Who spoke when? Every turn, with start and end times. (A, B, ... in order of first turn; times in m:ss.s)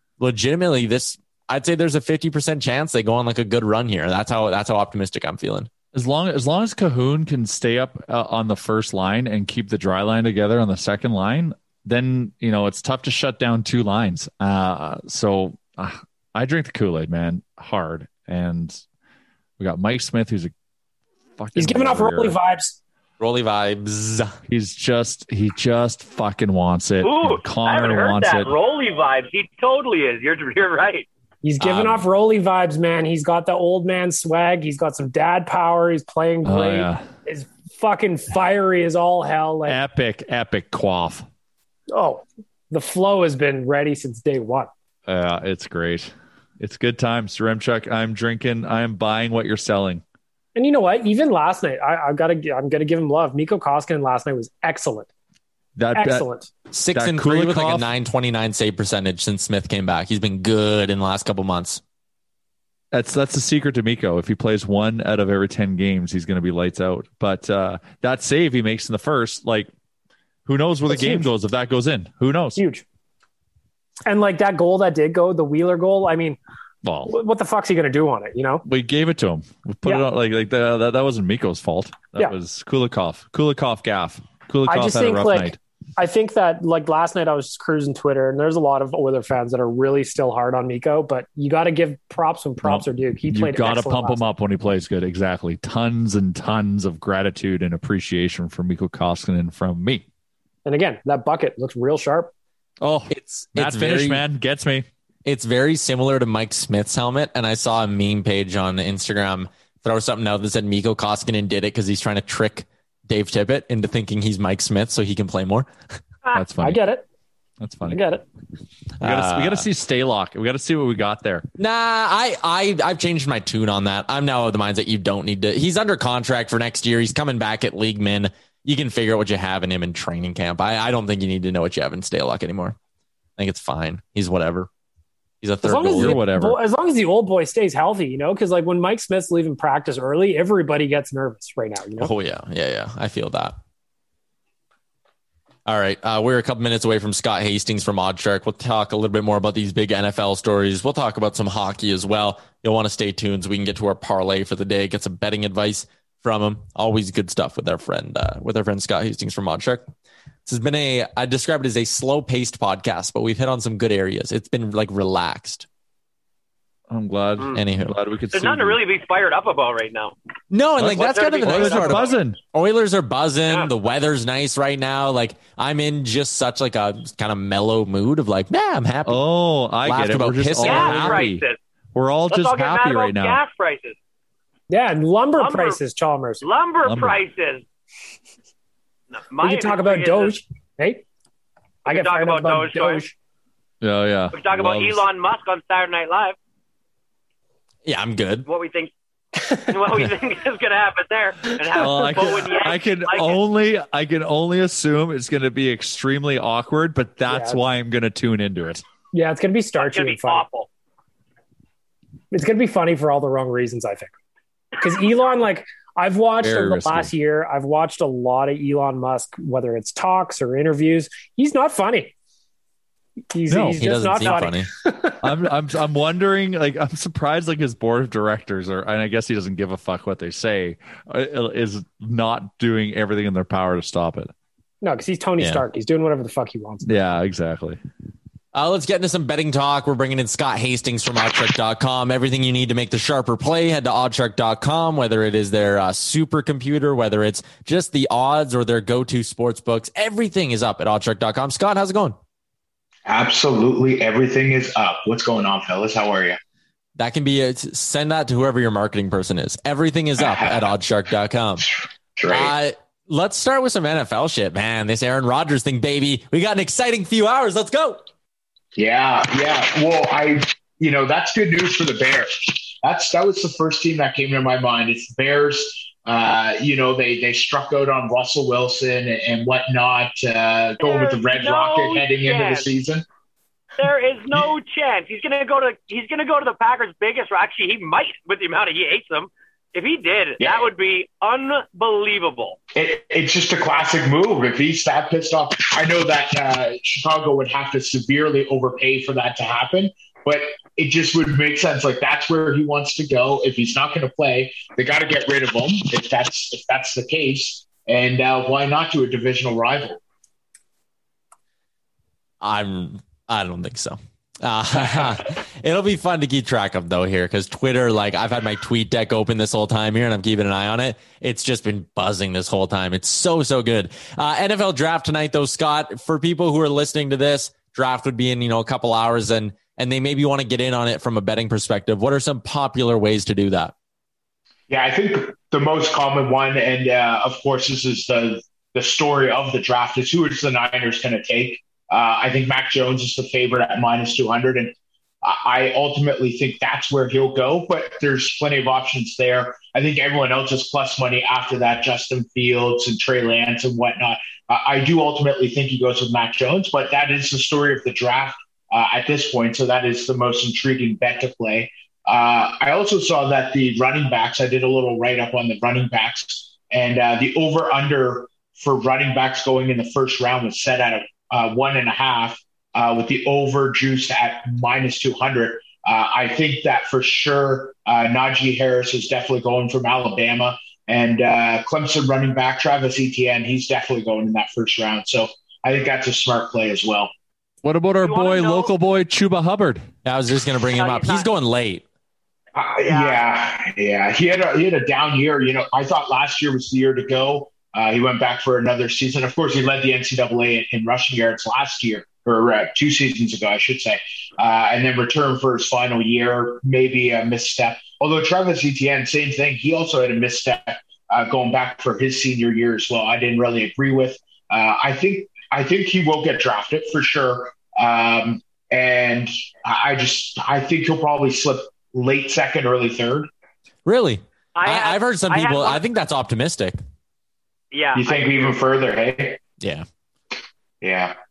0:00.2-0:05.7 A
0:05.9-0:18.8 B
0:19.6-0:20.5 B
0:21.4-0:22.4 B
0:21.6-0:22.8 C
0:23.2-0:24.4 A
0:24.5-0:28.5 B
0:27.0-0:31.1 D
0:31.4-0:39.8 C
0:31.6-0:32.0 A
0:36.4-0:37.1 B
0:39.7-0:41.3 B
0:41.9-0:44.7 C
0:45.1-0:50.0 B
0:50.6-0:55.1 C
0:55.8-0:56.3 B
0:55.9-0:56.5 C
0:56.7-1:01.8 A
0:56.9-0:57.9 B
1:02.9-1:09.7 B
1:10.5-1:12.6 B
1:10.9-1:11.3 C
1:12.6-1:12.8 C
1:14.1-1:16.4 C
1:16.8-1:17.2 B
1:17.1-1:18.6 C
1:18.6-1:25.6 B
1:24.7-1:34.2 C
1:32.6-1:40.1 B
1:40.6-1:42.3 C
1:42.8-1:44.9 B
1:43.1-1:44.2 A
1:45.3-1:56.0 A
1:56.3-1:56.8 B
1:56.6-1:57.0 C
1:57.6-1:58.0 B
1:57.9-1:58.2 C
1:59.0-1:59.7 A
1:59.0-2:01.5 B
2:01.6-2:12.8 A
2:13.4-2:14.7 A
2:15.4-2:16.2 A
2:15.6-2:22.1 C
2:15.9-2:16.6 B
2:22.0-2:23.6 A
2:25.7-2:39.9 A
2:40.5-2:45.7 A
2:46.9-2:48.8 B
2:47.6-2:47.9 A
2:48.3-2:50.2 D
2:50.5-2:59.2 A
2:50.8-2:52.4 B
2:50.9-2:52.2 D
2:59.0-3:03.4 B
2:59.8-3:01.2 A
3:00.6-3:01.6 D
3:02.3-3:04.0 D
3:04.7-3:06.4 C
3:05.4-3:05.8 D
3:06.4-3:07.6 D
3:06.8-3:07.2 B
3:09.3-3:10.4 D
3:09.4-3:11.0 C
3:11.8-3:13.0 D
3:11.9-3:13.2 C
3:13.8-3:15.0 B
3:14.3-3:16.4 D
3:17.8-3:18.5 A
3:18.5-3:18.9 D
3:19.4-3:19.7 C
3:19.7-3:23.4 D
3:21.8-3:28.8 B
3:21.8-3:22.4 C
3:27.3-3:27.6 C
3:29.1-3:30.4 C
3:29.8-3:30.7 D
3:32.3-3:34.1 C
3:34.8-3:42.1 C
3:36.4-3:37.1 B
3:43.3-3:45.3 C
3:43.5-3:44.7 A
3:45.2-3:54.3 B
3:54.8-3:56.8 C
3:56.8-3:57.8 B
3:58.5-4:12.2 A
4:13.1-4:16.4 E
4:17.0-4:21.7 A
4:20.2-4:20.7 E
4:22.2-4:22.5 E
4:22.3-4:28.0 A
4:28.8-4:43.1 E
4:40.8-4:42.7 D
4:43.8-4:52.6 D
4:50.4-4:50.7 E
4:52.8-5:10.0 E
5:12.4-5:33.7 A
5:34.7-6:27.1 E
6:27.6-6:29.9 B
6:28.0-6:28.7 D
6:30.0-6:31.8 A
6:30.8-6:31.3 D
6:32.6-7:03.3 E
6:32.8-6:33.2 D
7:03.9-7:06.8 A
7:04.6-7:05.8 D
7:07.7-7:08.5 D
7:08.0-7:09.4 E
7:09.6-7:09.8 A
7:10.8-7:11.1 E